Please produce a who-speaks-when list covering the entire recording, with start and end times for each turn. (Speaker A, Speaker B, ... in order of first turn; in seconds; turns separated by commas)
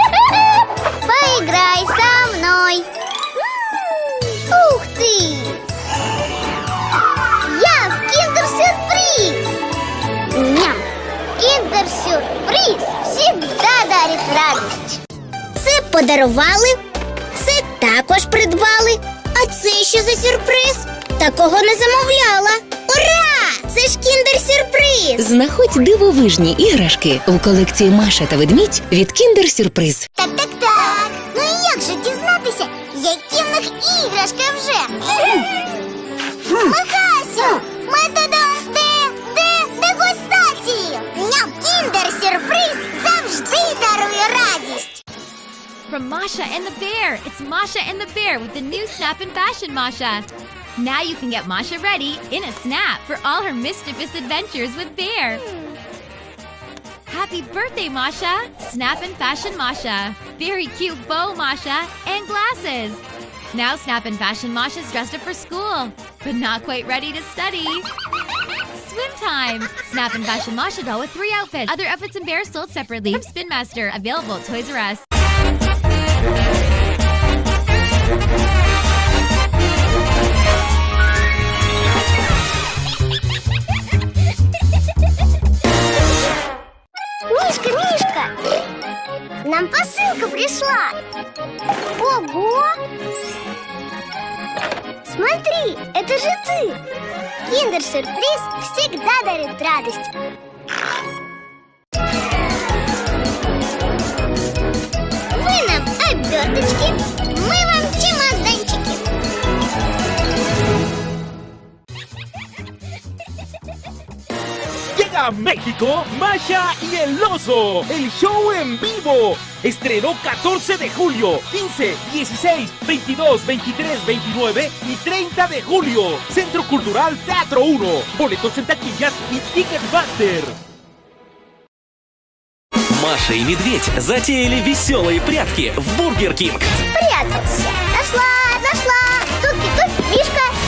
Speaker A: 1.0-2.9, Speaker A: 4.5-5.6, Speaker A: 7.5-9.5, Speaker A: 10.3-10.8, Speaker A: 11.4-15.0, Speaker A: 15.6-16.8, Speaker A: 17.4-25.3, Speaker B: 25.2-30.1, Speaker A: 30.1-35.4, Speaker A: 36.5-45.0, Speaker C: 45.9-55.4, Speaker C: 57.1-63.0, Speaker C: 63.5-67.9, Speaker C: 68.7-75.0, Speaker A: 87.3-88.3, Speaker A: 89.4-91.0, Speaker A: 92.0-92.8, Speaker A: 95.0-96.8, Speaker A: 97.5-100.1, Speaker A: 105.3-109.0, Speaker D: 114.9-130.6, Speaker E: 132.9-136.7, Speaker A: 136.9-140.5